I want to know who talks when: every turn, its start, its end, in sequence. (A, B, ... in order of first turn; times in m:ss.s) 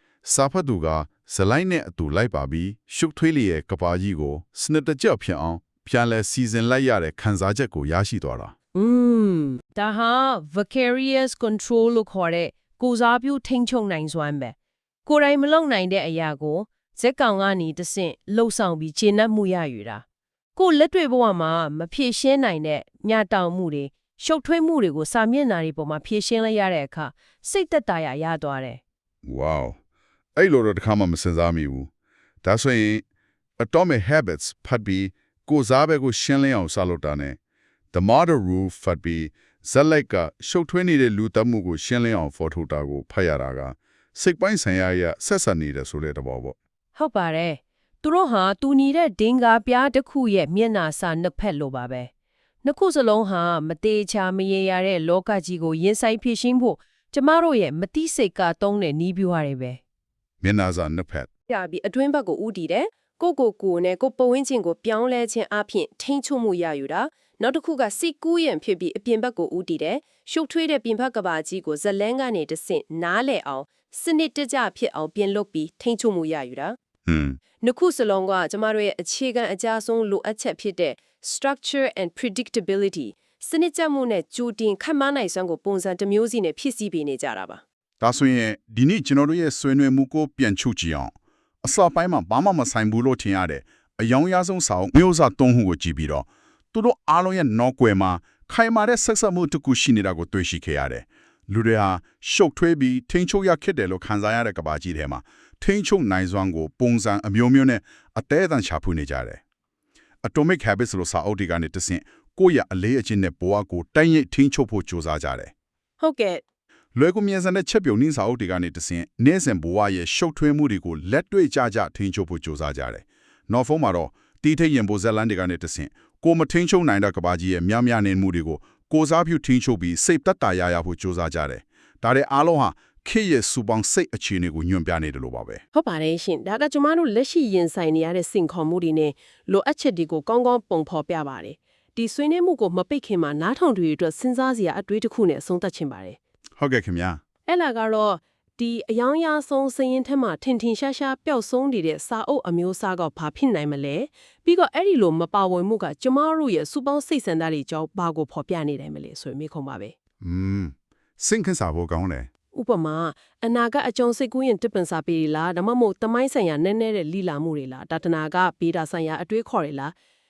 0:00.2-0:08.5 A
0:08.7-0:14.6 B
0:15.1-0:20.0 B
0:20.6-0:28.8 B
0:29.2-0:29.8 A
0:30.4-0:31.9 A
0:32.4-0:33.0 A
0:33.6-0:37.4 A
0:37.9-0:46.6 A
0:47.0-0:52.1 B
0:52.6-0:59.8 B
1:00.4-1:01.3 A
1:01.5-1:16.8 B
1:17.1-1:17.4 A
1:17.6-1:27.6 B
1:28.0-1:31.1 A
1:31.6-1:49.4 A
1:50.2-1:55.5 A
1:56.0-1:56.4 B
1:57.0-2:15.6 A
2:15.7-2:26.2 B
2:26.6-2:27.2 A
2:27.5-2:40.0 B
2:40.2-2:42.3 A
2:42.5-2:49.9 B